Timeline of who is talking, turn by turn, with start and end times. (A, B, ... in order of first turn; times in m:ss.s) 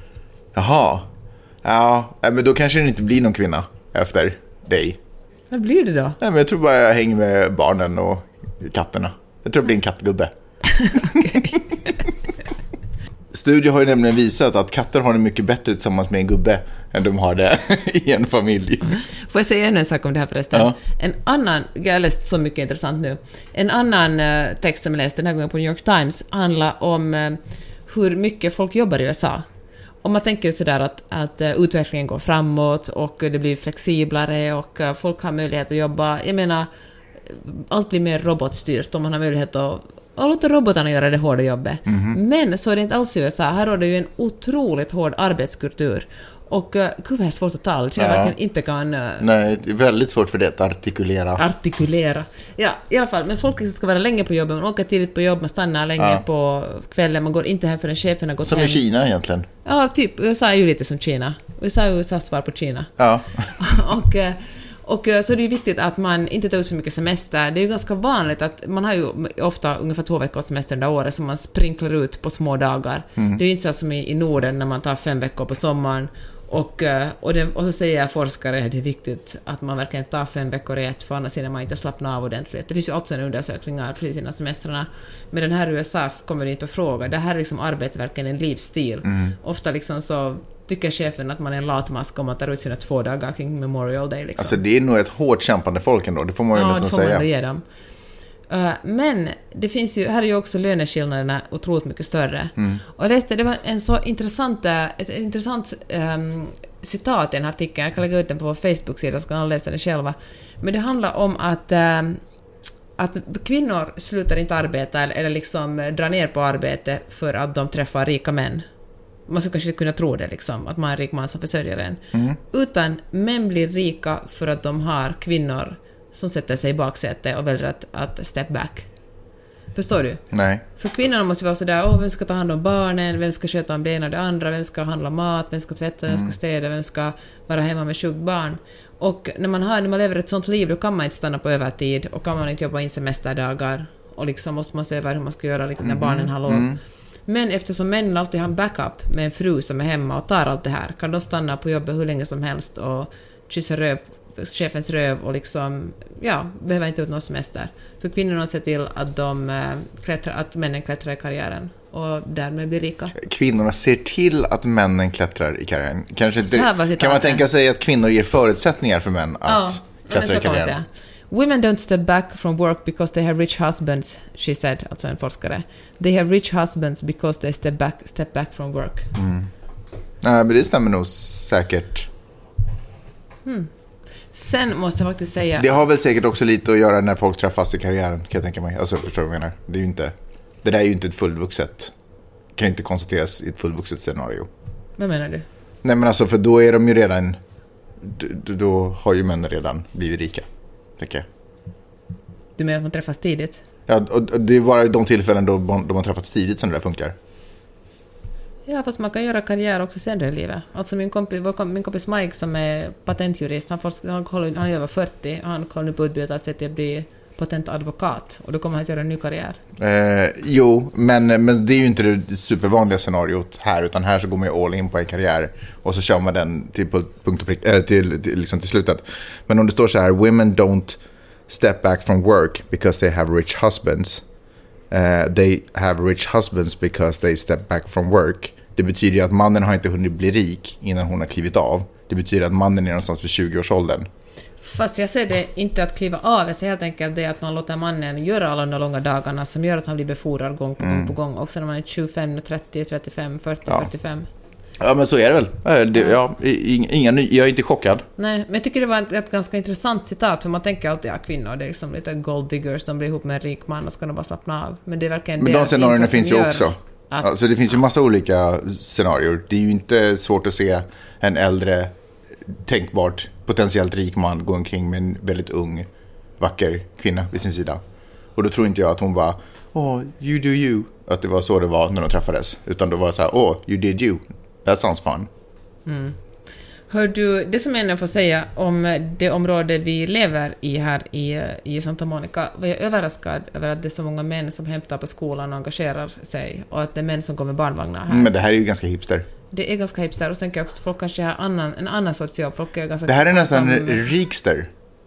0:00.6-0:01.1 A
0:01.6-0:05.0 A
0:05.5-0:06.2 B
0:06.2-0:10.3 A
0:10.7-0:12.0 B
0:11.0-0:11.5 A
0:13.3-0:19.0 A
0:18.9-0:29.4 B
0:30.0-0:36.7 B
0:37.3-0:49.3 B
0:41.9-0:42.2 A
0:48.0-0:48.4 A
0:49.2-0:51.4 A
0:51.4-0:58.8 B
0:56.0-0:56.2 A
0:58.5-0:59.5 A
0:59.6-1:03.0 B
1:03.0-1:03.6 A
1:03.6-1:34.6 B
1:29.1-1:29.3 A
1:34.4-1:37.2 A
1:36.5-1:37.6 B
1:38.5-1:52.2 B
1:53.0-1:58.7 B
1:59.3-2:08.9 B
2:09.7-2:10.2 B
2:10.3-2:10.6 A
2:10.8-2:26.8 B
2:16.1-2:16.3 A
2:25.8-2:26.8 A
2:27.3-2:43.2 B
2:43.2-2:50.8 A
2:46.4-2:47.4 B
2:49.4-2:59.1 B
2:59.2-2:59.5 A
3:00.2-3:02.1 A
3:03.4-3:03.7 B
3:04.3-3:05.8 B
3:05.6-3:11.9 A
3:12.6-3:14.5 A
3:15.0-3:15.4 B
3:15.8-3:17.4 A
3:18.0-3:20.5 A
3:21.0-3:21.3 A
3:22.6-3:23.6 B
3:23.9-3:27.2 A
3:28.7-3:39.6 B
3:39.8-3:54.2 A
3:54.9-4:04.1 A
4:04.6-4:14.3 B
4:10.8-4:11.1 A
4:14.8-4:18.0 A
4:18.2-4:27.3 B
4:25.4-4:31.9 A
4:32.5-4:35.9 A
4:36.4-4:37.8 A
4:38.4-4:45.3 A
4:45.9-4:46.2 B
4:46.9-4:58.3 B
4:58.1-4:59.3 A
4:59.5-5:04.1 B
5:03.1-5:04.7 A